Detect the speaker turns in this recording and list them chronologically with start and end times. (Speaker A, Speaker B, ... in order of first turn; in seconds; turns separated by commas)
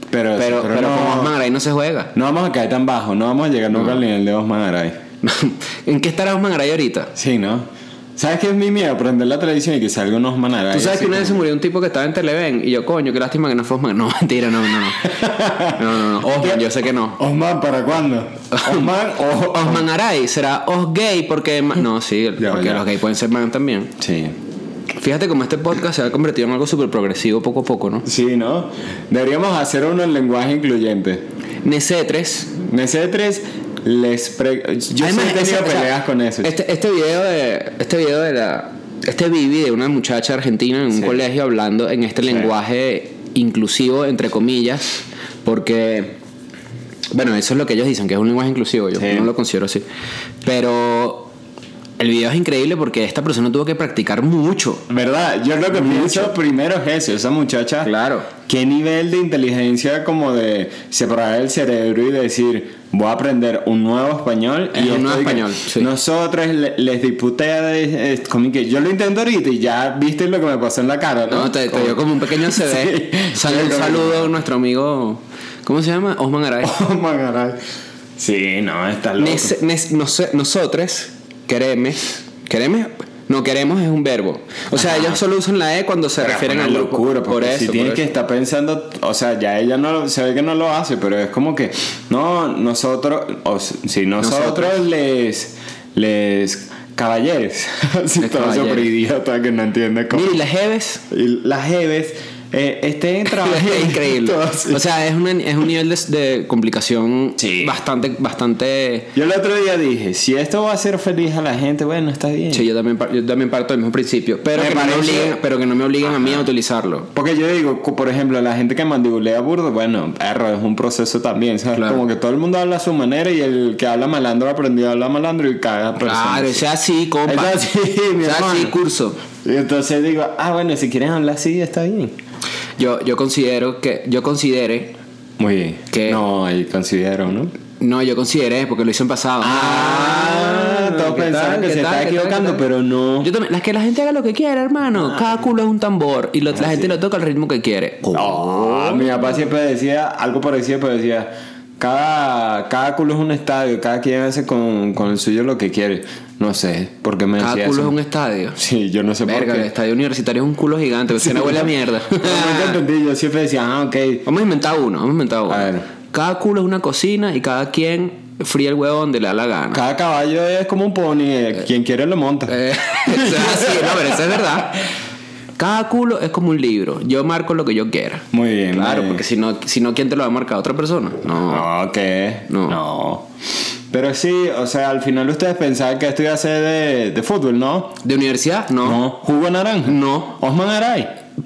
Speaker A: 0.1-1.4, Speaker B: 0.4-2.1, Speaker A: 2.1-5.0, Speaker B: 3.7-4.0, Speaker B: 5.2-7.1, Speaker A: 7.2-11.5, Speaker B: 10.7-17.2, Speaker A: 15.1-19.9, Speaker B: 18.5-18.9, Speaker B: 19.5-23.9, Speaker A: 22.4-22.9, Speaker A: 24.0-24.4, Speaker B: 25.0-28.1, Speaker A: 28.1-31.2, Speaker B: 31.6-32.5, Speaker A: 32.6-36.5, Speaker B: 35.0-46.2, Speaker A: 40.9-41.2, Speaker B: 47.1-49.8, Speaker A: 49.0-49.3, Speaker B: 50.4-51.3, Speaker B: 52.0-54.8, Speaker A: 54.9-57.9, Speaker B: 55.7-56.4, Speaker B: 57.8-58.3, Speaker A: 58.5-74.3, Speaker B: 64.7-65.9, Speaker B: 71.3-76.7, Speaker A: 76.6-77.6, Speaker A: 78.2-79.6, Speaker B: 79.2-88.1, Speaker A: 84.7-85.2, Speaker A: 86.2-100.4, Speaker B: 94.2-94.8, Speaker B: 98.2-98.9, Speaker B: 100.1-101.0, Speaker A: 101.1-104.8, Speaker B: 103.3-109.1, Speaker A: 107.4-107.8, Speaker A: 109.2-112.7, Speaker B: 112.5-117.1, Speaker A: 114.5-115.4, Speaker A: 116.1-116.5, Speaker A: 117.1-126.7, Speaker B: 121.8-122.0, Speaker B: 126.0-127.6, Speaker A: 127.2-128.8, Speaker B: 128.2-129.2, Speaker A: 129.4-132.1, Speaker B: 132.8-134.9, Speaker A: 135.4-137.5, Speaker B: 135.9-136.2, Speaker B: 137.8-142.7, Speaker A: 139.4-143.3, Speaker B: 143.2-149.4, Speaker A: 144.9-145.3, Speaker A: 146.5-147.0, Speaker A: 148.1-157.9, Speaker B: 157.4-158.6, Speaker A: 158.6-159.7, Speaker B: 159.3-162.8, Speaker A: 161.2-164.2, Speaker B: 164.3-169.8, Speaker A: 165.5-165.9, Speaker A: 169.7-174.7, Speaker B: 172.5-174.9, Speaker B: 175.6-181.7, Speaker A: 178.3-179.2, Speaker A: 181.4-183.3, Speaker B: 182.5-182.8, Speaker A: 183.9-188.0, Speaker B: 188.0-189.0, Speaker A: 188.8-191.1, Speaker B: 189.8-190.4